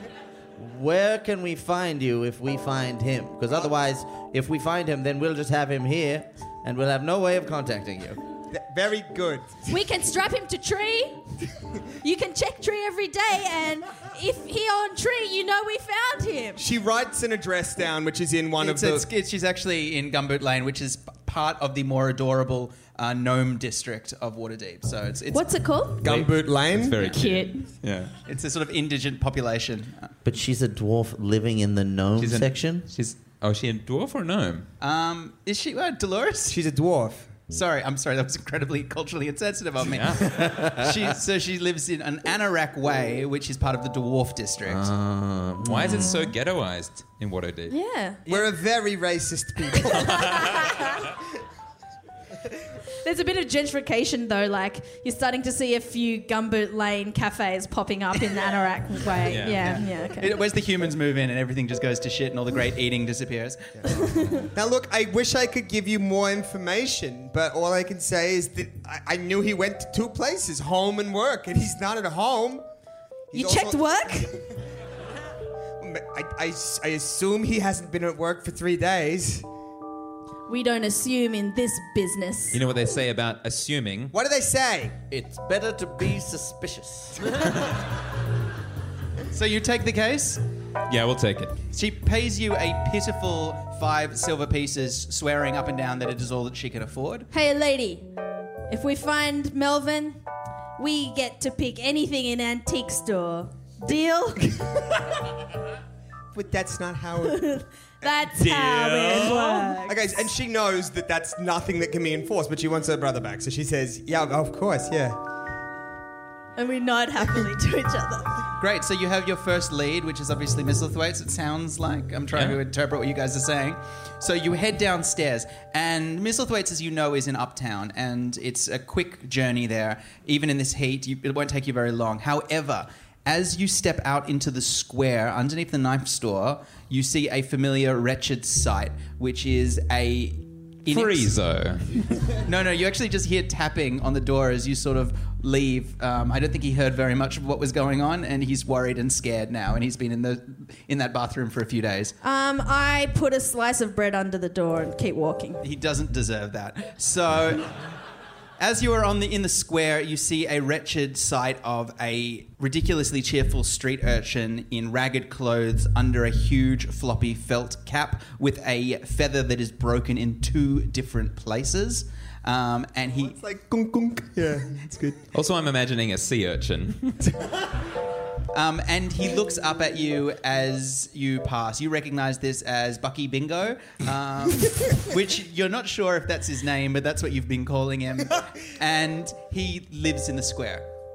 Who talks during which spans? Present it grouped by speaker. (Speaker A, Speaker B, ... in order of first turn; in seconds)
Speaker A: 0.6-8.2, 30.2-32.9, 40.2-40.9, 44.7-46.2, 85.1-87.3
Speaker B: 8.5-9.7, 16.6-19.1, 26.0-27.0, 36.5-37.3, 48.3-50.9, 63.8-72.7, 73.3-74.1, 75.8-79.5, 84.1-85.0, 106.3-115.2, 173.1-175.3
Speaker C: 9.7-11.2, 12.0-16.6, 25.3-26.0, 47.7-48.2, 50.1-50.9, 53.0-60.4, 63.9-64.5, 73.3-74.3, 80.5-82.6, 97.3-98.1, 98.7-100.2, 100.8-104.5, 107.2-110.2, 116.6-118.4, 152.2-155.6
Speaker D: 18.6-25.5, 27.0-27.5, 28.3-30.1, 34.8-36.6, 37.5-44.9, 59.5-63.7, 89.3-90.4, 91.7-97.3, 118.6-141.4, 142.4-152.2, 155.6-157.7, 158.6-173.4, 178.5-190.9
Speaker E: 26.0-28.1, 32.2-34.7, 39.8-40.3, 45.6-47.8, 59.3-59.8, 82.5-84.1, 90.9-91.6, 122.3-122.6, 140.9-142.0, 175.3-177.2